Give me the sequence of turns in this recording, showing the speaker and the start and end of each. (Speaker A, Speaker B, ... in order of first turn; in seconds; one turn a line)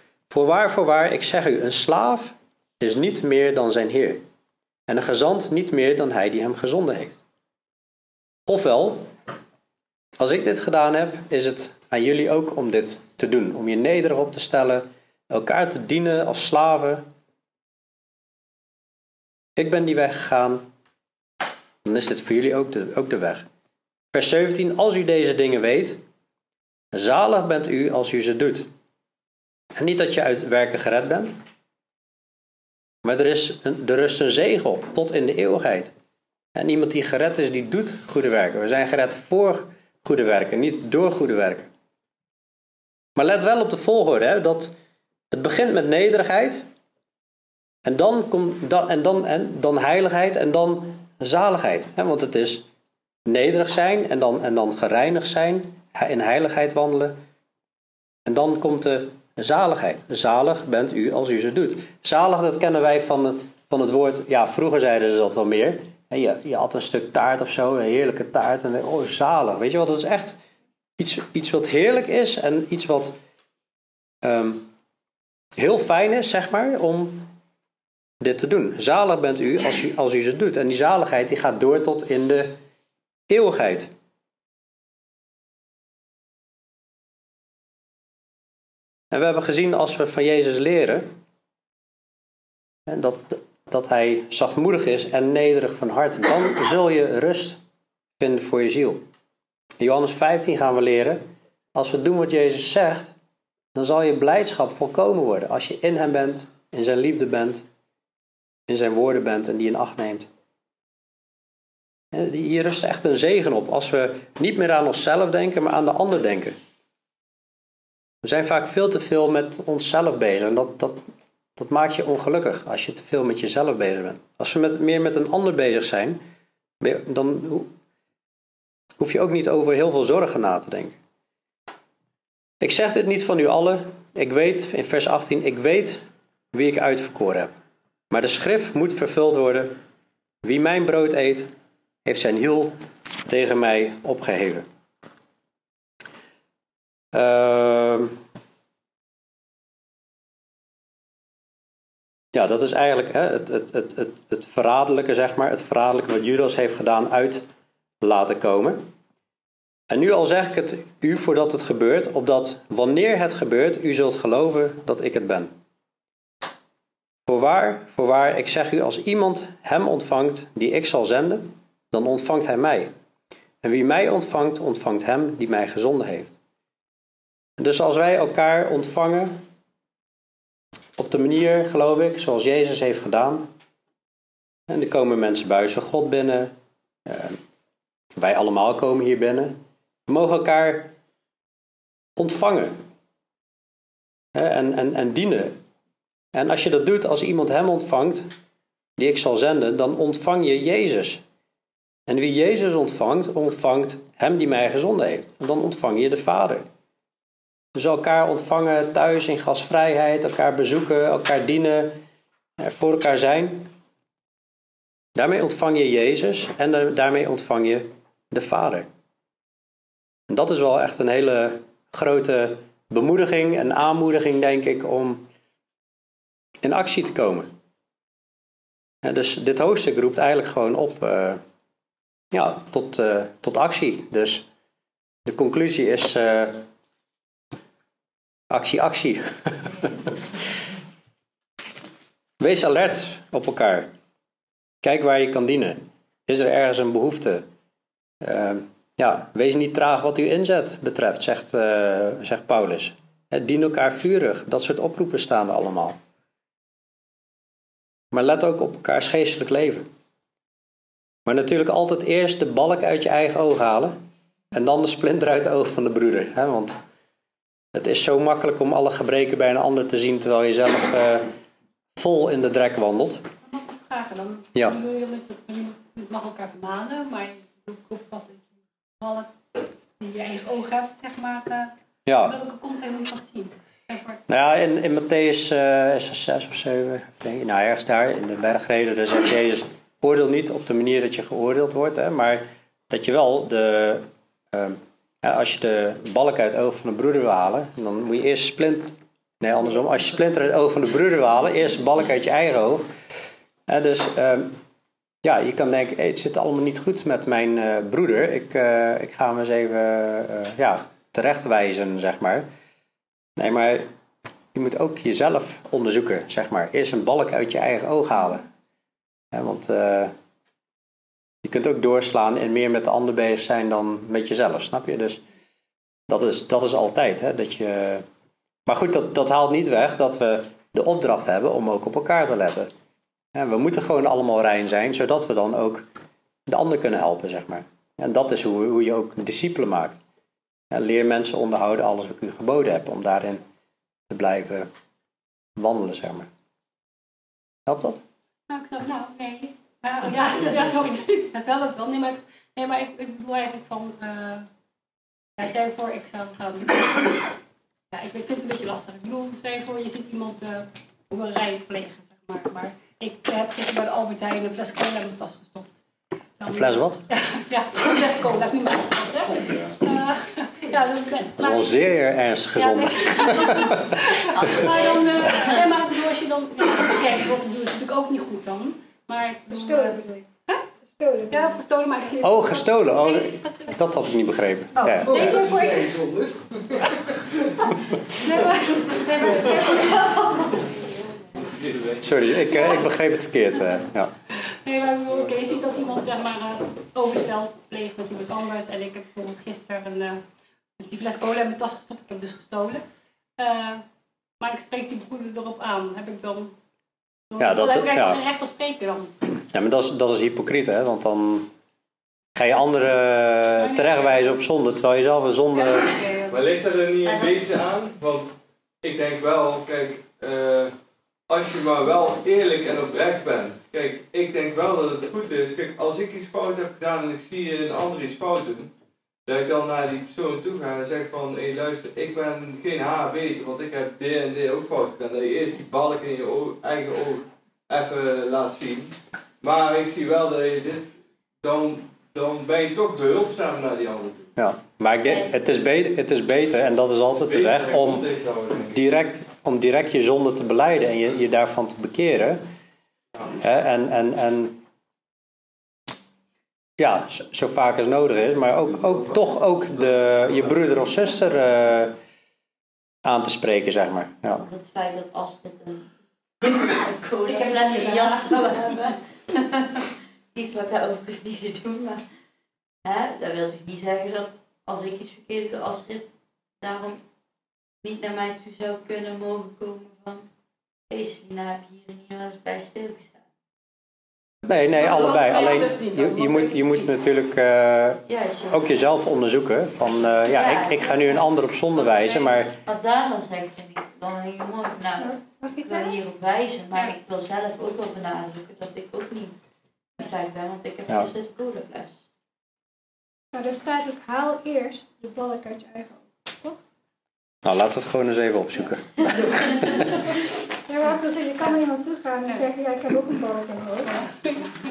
Speaker A: 0.3-4.2
Speaker A: 4.9-7.2
Speaker A: 8.5-9.1
Speaker A: 10.2-17.1
Speaker A: 19.6-20.6
Speaker A: 21.8-23.4
Speaker A: 24.1-26.0
Speaker A: 26.9-28.7
Speaker A: 29.8-31.3
Speaker A: 33.0-35.9
Speaker A: 36.5-41.7
Speaker A: 43.2-44.7
Speaker A: 45.3-46.6
Speaker A: 47.9-52.6
Speaker A: 53.3-57.2
Speaker A: 58.3-70.4
Speaker A: 71.0-73.2
Speaker A: 74.2-74.7
Speaker A: 75.6-77.3
Speaker A: 78.2-82.6
Speaker A: 83.3-83.9
Speaker A: 89.1-91.1
Speaker A: 92.9-97.6
Speaker A: 98.2-99.0
Speaker A: 99.8-103.1
Speaker A: 103.8-107.6
Speaker A: 108.7-110.3
Speaker A: 112.1-116.6
Speaker A: 118.2-121.0
Speaker A: 121.6-126.2
Speaker A: 126.8-127.7
Speaker A: 129.0-131.0
Speaker A: 132.6-137.5
Speaker A: 138.1-139.8
Speaker A: 140.4-141.5
Speaker A: 142.1-142.7
Speaker A: 143.3-144.7
Speaker A: 147.1-148.2
Speaker A: 152.3-157.5
Speaker A: 158.0-158.8
Speaker A: 159.9-165.5
Speaker A: 167.3-172.9
Speaker A: 173.6-176.3
Speaker A: 177.6-179.4
Speaker A: 181.0-183.5
Speaker A: 184.7-186.5
Speaker A: 187.1-187.4
Speaker A: 188.2-190.9
Speaker A: 192.2-192.8
Speaker A: 194.3-195.6
Speaker A: 196.3-198.3
Speaker A: 199.0-201.2
Speaker A: 202.1-206.7
Speaker A: 207.8-212.0
Speaker A: 212.6-213.7
Speaker A: 215.2-218.9
Speaker A: 220.3-225.2
Speaker A: 226.6-227.5
Speaker A: 229.0-231.4
Speaker A: 232.3-234.4
Speaker A: 235.3-236.7
Speaker A: 238.5-240.1
Speaker A: 242.4-243.9
Speaker A: 244.8-247.4
Speaker A: 248.2-256.0
Speaker A: 258.1-259.9
Speaker A: 261.3-264.0
Speaker A: 264.5-266.7
Speaker A: 267.7-271.3
Speaker A: 272.0-273.2
Speaker B: 273.4-281.7
Speaker A: 282.1-282.4
Speaker B: 282.2-284.2
Speaker A: 284.3-302.9
Speaker A: 303.7-304.5
Speaker A: 305.2-312.5
Speaker A: 313.4-313.9
Speaker A: 314.5-318.5
Speaker A: 319.3-320.1
Speaker A: 321.4-325.2
Speaker A: 326.1-328.0
Speaker A: 328.7-332.7
Speaker A: 333.3-335.9
Speaker A: 336.5-340.0
Speaker A: 340.7-343.4
Speaker A: 344.1-344.7
Speaker A: 345.6-346.3
Speaker A: 347.7-348.0
Speaker B: 348.5-354.5
Speaker B: 355.4-357.3
Speaker B: 357.9-365.7
Speaker B: 366.4-372.0
Speaker A: 366.5-367.0
Speaker A: 371.4-374.2
Speaker B: 372.6-380.6
Speaker C: 374.3-375.8
Speaker D: 379.5-380.2
Speaker D: 380.9-381.6
Speaker B: 381.3-383.9
Speaker A: 382.2-385.2
Speaker B: 384.8-385.9
Speaker E: 385.1-387.6
Speaker D: 385.1-385.5
Speaker B: 388.2-390.6
Speaker E: 388.2-389.6
Speaker C: 389.9-391.4
Speaker E: 391.5-392.1
Speaker A: 392.0-394.1
Speaker B: 394.6-400.2
Speaker B: 400.8-402.8
Speaker B: 403.4-403.8
Speaker B: 404.4-406.5
Speaker B: 407.3-409.1
Speaker A: 407.4-408.2
Speaker A: 409.5-411.5
Speaker A: 412.4-415.9
Speaker B: 413.6-414.3
Speaker B: 415.7-416.4
Speaker E: 416.3-420.7
Speaker C: 417.1-417.5
Speaker E: 421.3-428.7
Speaker E: 429.3-444.3
Speaker A: 444.4-448.1
Speaker E: 447.3-448.8
Speaker A: 448.7-452.4
Speaker A: 453.4-454.6
Speaker A: 456.8-462.0
Speaker A: 463.1-464.5
Speaker C: 464.4-465.9
Speaker C: 466.4-472.1
Speaker B: 467.4-468.5
Speaker C: 472.9-476.1
Speaker C: 476.6-477.0
Speaker C: 477.8-480.3
Speaker C: 480.9-483.2
Speaker A: 484.4-492.6
Speaker B: 484.7-486.9
Speaker C: 488.1-488.7
Speaker C: 490.3-499.4
Speaker D: 495.0-496.0
Speaker C: 500.0-502.0
Speaker D: 503.3-506.6
Speaker A: 507.4-510.0
Speaker D: 510.7-514.0
Speaker B: 513.9-514.5